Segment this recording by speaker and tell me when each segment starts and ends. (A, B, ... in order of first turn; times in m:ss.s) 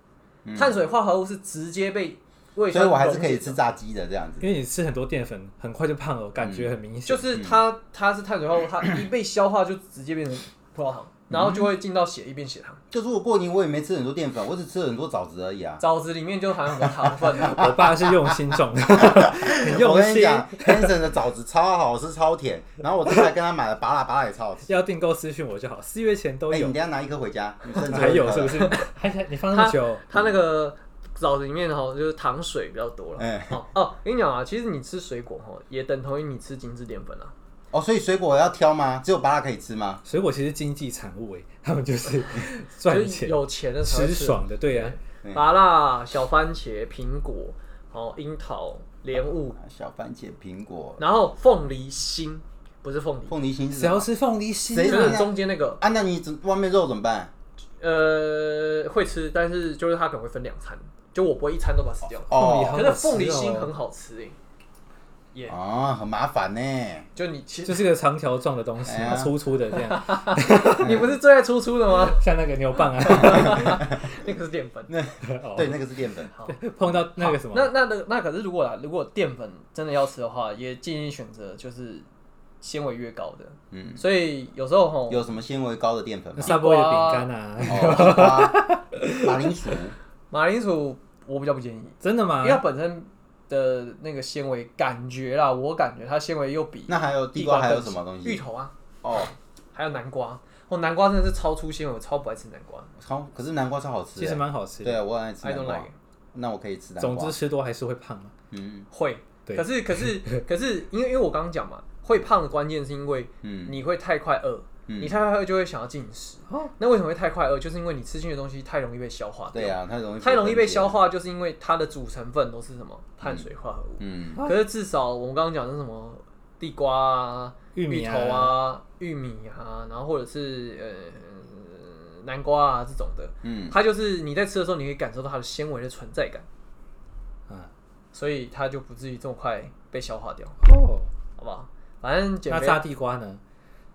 0:00.4-0:00.8 A
0:00.6-0:03.6 B
0:02.7-0:04.5 A
0:04.4-0:07.4 C
0:06.4-0:06.7 A
0:07.1-0:12.8 B
0:11.3-0:11.7 A
0:12.9-0:15.8 A
0:15.8-0:17.6 B
0:16.8-0:24.7 A
0:17.4-0:20.9 C
0:24.7-0:26.8 C
0:26.5-0:28.7 A
0:27.8-0:30.0 C
0:28.6-0:28.9 B
0:29.5-0:37.3 B
0:33.2-0:33.6 A
0:37.7-0:40.0 A
0:40.1-0:45.0 C
0:42.9-0:49.6 B
0:45.2-0:45.5 A
0:49.2-0:51.0 A
0:51.0-0:53.4 B
0:53.3-0:54.1 A
0:53.7-0:55.2 C
0:54.7-0:57.3 A
0:54.8-0:55.8 B
0:57.8-1:04.4 B
1:02.3-1:02.9 A
1:02.3-1:03.7 C
1:05.5-1:07.1 A
1:07.2-1:07.9 B
1:07.7-1:11.0 C
1:08.8-1:09.3 A
1:09.7-1:12.2 B
1:10.8-1:11.1 A
1:12.1-1:13.9 C
1:13.0-1:14.9 B
1:14.9-1:16.3 A
1:15.2-1:15.8 C
1:16.3-1:16.6 B
1:16.5-1:17.7 C
1:17.2-1:22.1 B
1:22.6-1:25.2 B
1:23.7-1:24.0 A
1:25.1-1:26.6 A
1:26.4-1:29.8 C
1:26.5-1:27.3 B
1:27.6-1:30.0 A
1:30.3-1:38.7 B
1:32.0-1:32.6 C
1:36.9-1:38.4 A
1:39.0-1:39.3 A
1:39.7-1:42.9 B
1:43.0-1:47.4 A
1:44.2-1:45.0 C
1:45.4-1:46.0 B
1:47.0-1:48.3 C
1:48.5-1:48.9 A
1:48.9-2:16.5 B
1:49.5-1:50.4 C
1:53.4-1:53.8 A
1:54.9-1:55.1 A
1:59.5-2:01.0 A
2:03.2-2:03.5 A
2:04.0-2:04.4 A
2:07.8-2:08.6 C
2:13.4-2:13.8 A
2:18.1-2:20.6 B
2:20.6-2:21.1 C
2:21.4-2:22.8 B
2:22.5-2:23.4 C